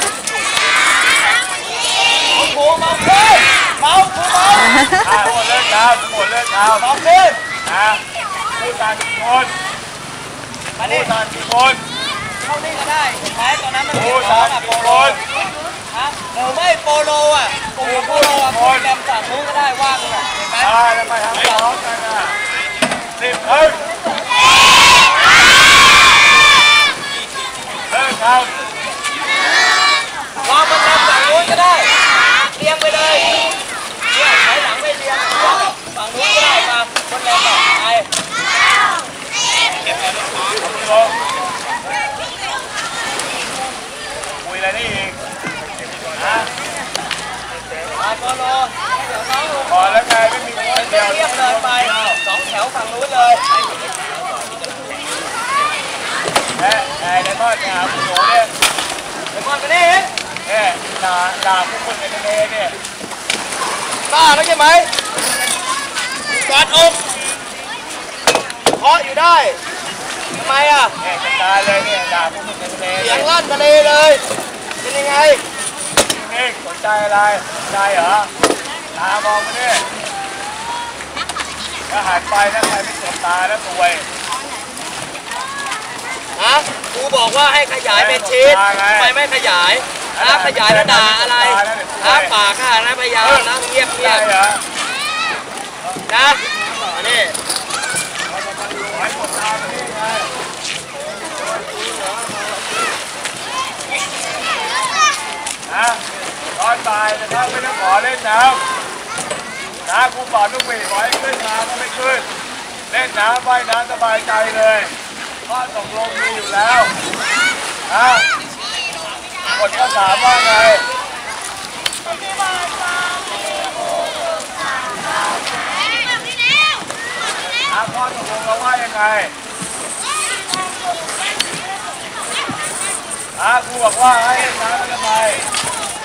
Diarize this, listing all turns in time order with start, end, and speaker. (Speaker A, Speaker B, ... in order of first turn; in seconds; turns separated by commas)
Speaker A: 2.3-5.0, Speaker B: 5.0-6.9, Speaker A: 6.8-7.4, Speaker B: 7.7-8.0, Speaker B: 8.6-9.5, Speaker A: 10.8-11.1, Speaker B: 10.8-11.8, Speaker A: 12.4-15.3, Speaker B: 13.9-15.2, Speaker A: 15.9-20.8, Speaker B: 17.8-18.9, Speaker B: 20.6-22.4, Speaker A: 21.3-21.7, Speaker B: 23.2-23.8, Speaker B: 27.9-28.6, Speaker A: 30.4-31.9, Speaker A: 32.5-33.5, Speaker A: 34.1-38.1, Speaker B: 40.6-41.2, Speaker B: 44.4-45.2, Speaker B: 46.1-46.5, Speaker A: 47.9-50.0, Speaker B: 49.7-52.2, Speaker A: 50.7-53.6, Speaker B: 56.6-58.5, Speaker A: 59.3-60.1, Speaker B: 60.5-62.8, Speaker A: 64.1-64.9, Speaker A: 66.3-67.1, Speaker A: 68.8-69.6, Speaker A: 70.3-71.0, Speaker B: 71.0-73.3, Speaker A: 73.0-74.2, Speaker A: 74.8-75.4, Speaker B: 76.1-78.3, Speaker B: 78.9-79.9, Speaker B: 81.9-84.1, Speaker A: 86.4-94.3, Speaker B: 87.9-89.1, Speaker B: 90.2-92.3, Speaker B: 93.2-94.6, Speaker A: 96.1-97.3, Speaker B: 98.8-100.3, Speaker B: 105.7-106.0, Speaker B: 106.6-108.6, Speaker B: 109.8-112.3, Speaker B: 112.9-114.9, Speaker B: 115.5-116.9, Speaker B: 117.9-118.3, Speaker B: 119.5-120.9, Speaker B: 127.7-129.3, Speaker B: 133.4-135.5